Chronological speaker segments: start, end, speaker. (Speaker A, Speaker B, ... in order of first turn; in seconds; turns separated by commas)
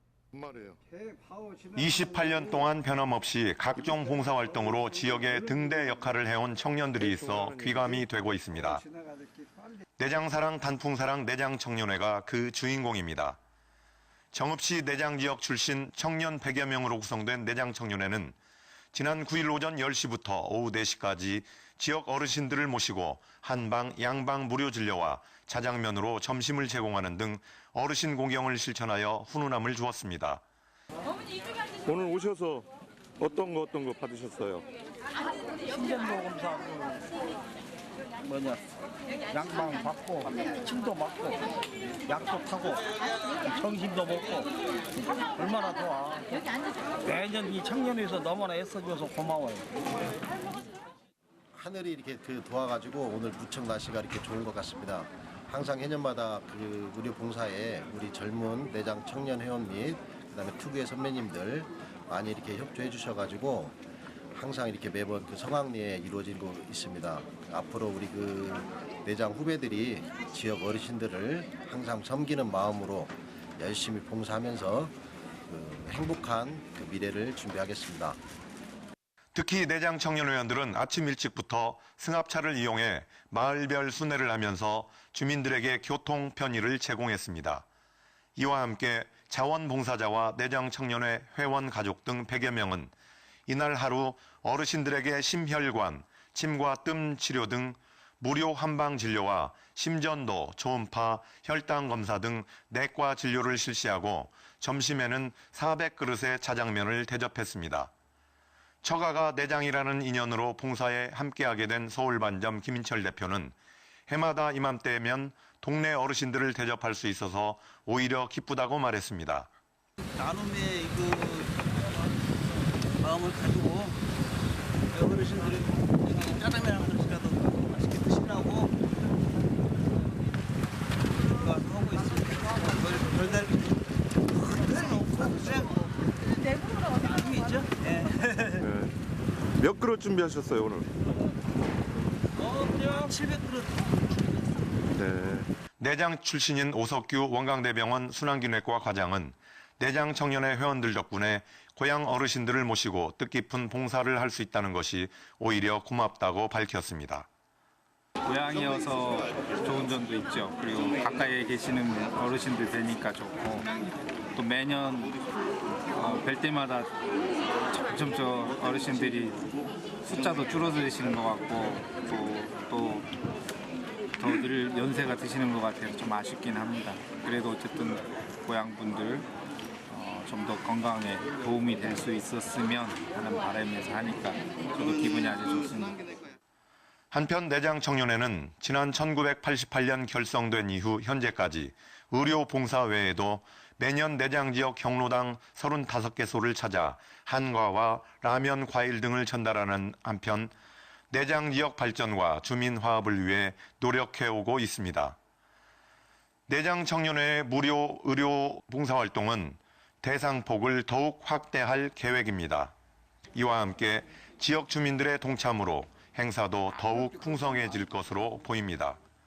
Speaker A: 0.3-0.8, Speaker B: 1.7-8.8, Speaker A: 7.0-8.1, Speaker B: 10.0-13.4, Speaker B: 14.3-18.3, Speaker B: 18.9-30.4, Speaker A: 31.8-32.7, Speaker A: 33.2-34.6, Speaker C: 35.7-37.0, Speaker C: 38.2-38.6, Speaker C: 39.3-41.4, Speaker C: 42.1-42.8, Speaker C: 43.4-44.5, Speaker C: 45.3-46.2, Speaker C: 47.0-49.7, Speaker D: 51.5-63.8, Speaker D: 64.3-74.9, Speaker D: 75.5-78.2, Speaker B: 79.3-87.7, Speaker B: 88.4-92.9, Speaker B: 93.5-107.9, Speaker B: 108.8-113.5, Speaker B: 114.1-119.5, Speaker E: 120.2-121.7, Speaker E: 123.0-124.0, Speaker E: 124.9-128.8, Speaker E: 131.3-135.9, Speaker E: 136.9-138.7, Speaker A: 138.6-138.9, Speaker A: 139.6-140.9, Speaker E: 142.3-144.2, Speaker A: 144.9-145.5, Speaker B: 145.8-157.3, Speaker F: 158.2-163.7, Speaker F: 164.3-165.2, Speaker F: 165.9-166.9, Speaker F: 167.7-169.4, Speaker F: 170.0-173.1, Speaker F: 174.2-179.3, Speaker F: 179.9-186.0, Speaker B: 187.1-200.5, Speaker B: 201.1-205.2, Speaker B: 206.5-212.7, Speaker B: 213.3-219.0